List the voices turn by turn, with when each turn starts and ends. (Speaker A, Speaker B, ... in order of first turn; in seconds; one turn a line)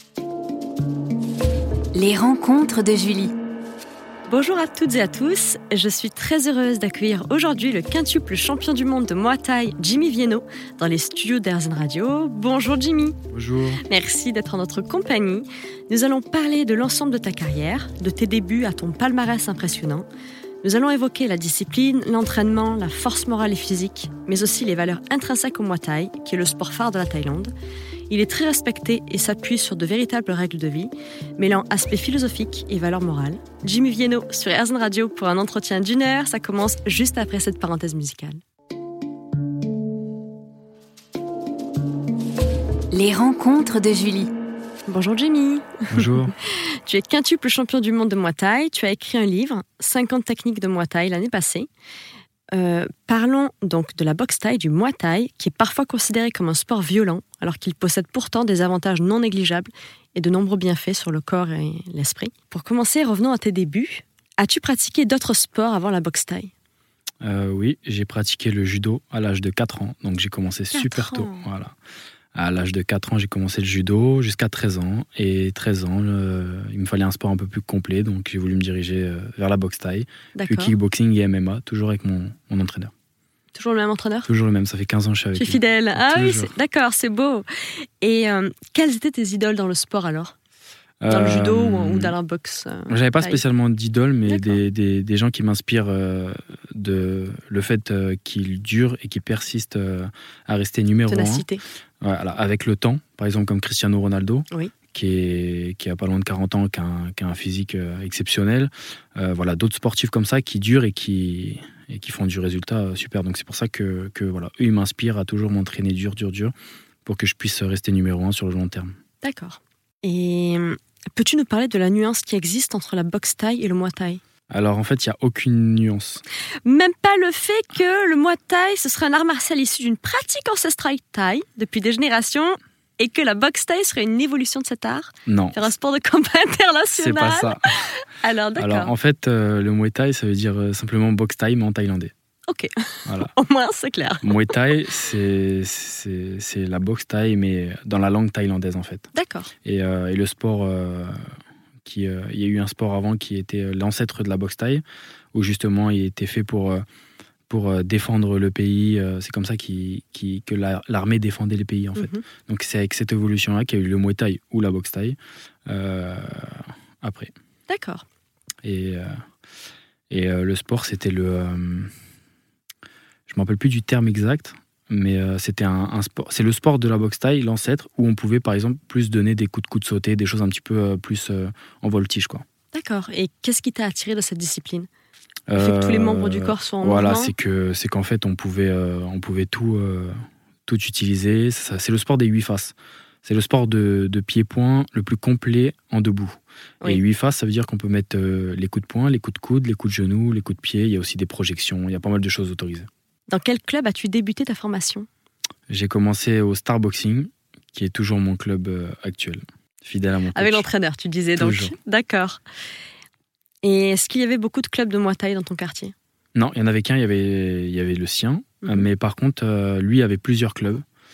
Speaker A: 1.9-3.3
Speaker B: 2.0-3.3
Speaker B: 4.3-13.2
Speaker C: 13.3-13.8
Speaker B: 13.8-20.1
Speaker B: 20.6-27.5
Speaker B: 28.1-38.4
Speaker A: 42.9-44.3
Speaker B: 44.9-46.1
Speaker C: 45.9-46.3
Speaker B: 46.9-51.7
Speaker B: 52.5-66.5
Speaker C: 67.2-71.7
Speaker B: 70.7-71.5
Speaker C: 72.4-82.9
Speaker B: 80.4-80.8
Speaker B: 83.5-84.3
Speaker C: 84.3-86.5
Speaker B: 85.3-90.3
Speaker C: 91.0-92.1
Speaker B: 91.1-93.4
Speaker C: 92.9-101.5
Speaker B: 94.2-94.6
Speaker B: 101.1-101.6
Speaker C: 102.0-116.5
Speaker C: 117.1-119.0
Speaker B: 119.2-124.2
Speaker C: 124.5-126.2
Speaker B: 126.7-138.9
Speaker C: 135.3-135.6
Speaker C: 136.9-137.7
Speaker C: 138.6-142.1
Speaker B: 142.5-144.7
Speaker C: 143.1-143.3
Speaker C: 144.2-149.1
Speaker B: 149.1-149.5
Speaker C: 149.7-151.2
Speaker C: 151.8-156.8
Speaker C: 157.5-167.3
Speaker B: 161.9-162.2
Speaker B: 167.7-168.1
Speaker C: 168.6-169.1
Speaker C: 170.1-171.9
Speaker C: 173.3-182.4
Speaker B: 182.7-184.9
Speaker C: 185.5-190.1
Speaker B: 185.6-187.3
Speaker C: 190.7-202.9
Speaker B: 203.3-205.1
Speaker C: 205.7-210.7
Speaker B: 210.3-212.4
Speaker C: 211.4-211.8
Speaker B: 213.6-215.9
Speaker C: 216.3-220.8